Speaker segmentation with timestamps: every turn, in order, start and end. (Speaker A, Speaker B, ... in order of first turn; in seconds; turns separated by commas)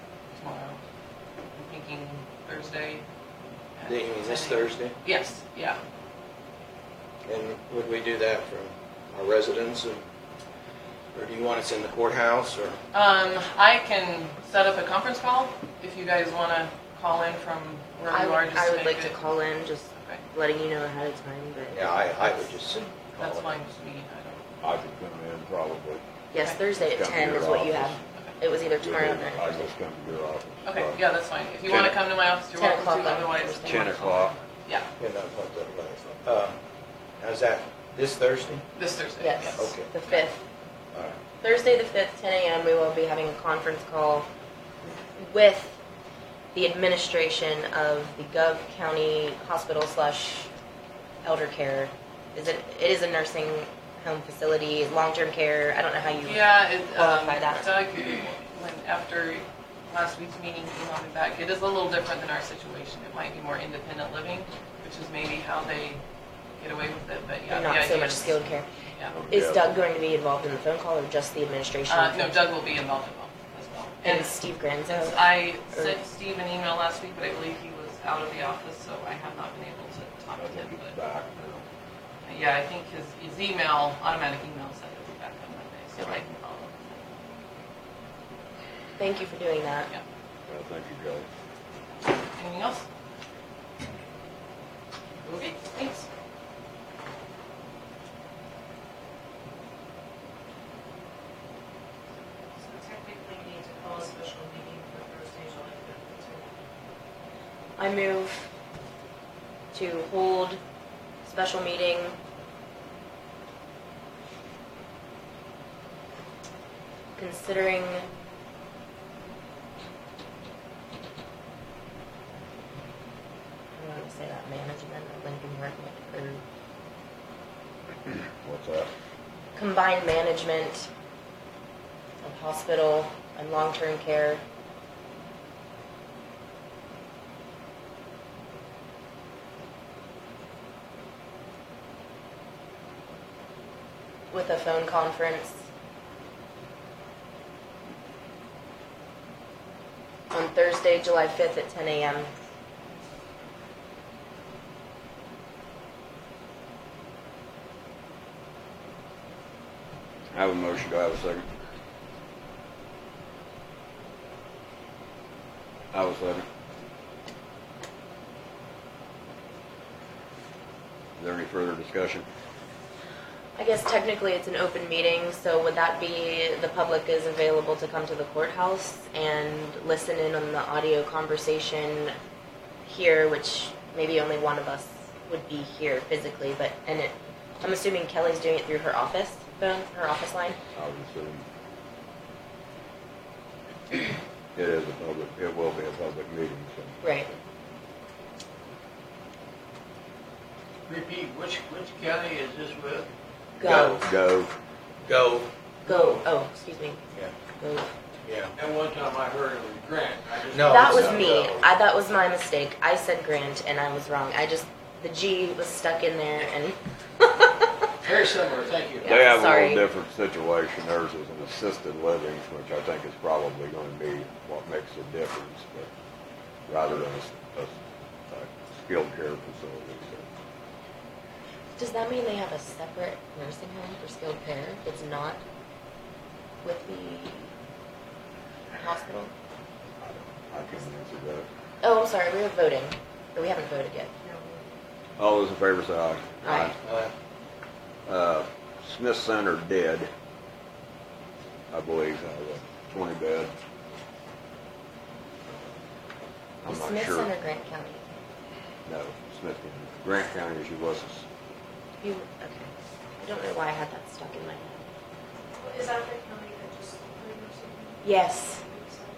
Speaker A: 0.3-0.8, Speaker A: 1.5-3.0, Speaker A: 3.8-5.8, Speaker B: 3.9-4.9, Speaker B: 7.2-10.0, Speaker B: 11.1-12.8, Speaker A: 12.9-19.2, Speaker C: 18.1-22.5, Speaker A: 19.9-20.2, Speaker B: 21.7-23.6, Speaker A: 23.1-24.4, Speaker D: 24.6-26.0, Speaker C: 26.3-29.7, Speaker D: 26.8-28.0, Speaker D: 28.7-31.0, Speaker A: 30.6-34.9, Speaker D: 31.6-32.0, Speaker C: 32.5-33.9, Speaker D: 33.4-34.4, Speaker B: 35.0-36.5, Speaker B: 37.2-38.6, Speaker A: 38.8-40.2, Speaker C: 39.2-40.4, Speaker B: 39.5-39.9, Speaker B: 40.9-41.2, Speaker C: 41.4-44.2, Speaker C: 45.2-45.8, Speaker C: 46.5-50.5, Speaker C: 51.2-57.7, Speaker A: 56.2-66.0, Speaker A: 66.6-68.4, Speaker C: 67.5-68.7, Speaker D: 69.1-69.8, Speaker C: 69.3-72.4, Speaker A: 71.9-74.3, Speaker C: 74.0-76.0, Speaker A: 74.9-80.9, Speaker D: 80.3-81.6, Speaker A: 82.2-87.0, Speaker C: 89.0-89.9, Speaker D: 90.5-91.3, Speaker A: 92.3-92.8, Speaker A: 95.2-96.0, Speaker E: 102.8-106.4, Speaker C: 107.8-108.5, Speaker C: 109.7-110.6, Speaker C: 111.2-112.2, Speaker C: 117.2-118.0, Speaker C: 123.7-126.4, Speaker D: 128.4-128.9, Speaker C: 129.6-130.9, Speaker C: 132.2-134.4, Speaker C: 144.3-145.6, Speaker C: 150.3-152.3, Speaker D: 160.3-161.5, Speaker D: 165.9-166.4, Speaker D: 171.2-172.2, Speaker C: 173.6-182.1, Speaker C: 182.8-190.6, Speaker D: 190.7-191.4, Speaker D: 194.5-197.0, Speaker C: 197.0-197.3, Speaker F: 200.9-203.1, Speaker C: 203.6-204.0, Speaker B: 203.6-204.0, Speaker D: 203.6-204.5, Speaker B: 205.0-205.5, Speaker C: 205.8-207.0, Speaker F: 205.9-206.1, Speaker C: 207.6-207.9, Speaker B: 208.2-208.5, Speaker F: 208.6-211.7, Speaker B: 210.5-211.4, Speaker C: 210.6-217.9, Speaker F: 218.0-219.1, Speaker C: 219.0-219.8, Speaker D: 219.0-225.9, Speaker D: 226.7-227.8, Speaker D: 228.3-230.3, Speaker C: 231.8-235.4, Speaker C: 236.6-237.5, Speaker C: 238.7-239.3, Speaker D: 240.0-241.5, Speaker C: 241.8-244.1, Speaker D: 245.2-246.8, Speaker C: 246.4-246.7, Speaker B: 246.8-247.1, Speaker D: 248.1-250.1, Speaker D: 251.7-253.5, Speaker D: 256.6-257.3, Speaker C: 256.7-258.1, Speaker D: 258.9-261.2, Speaker C: 262.0-264.8, Speaker C: 268.0-268.7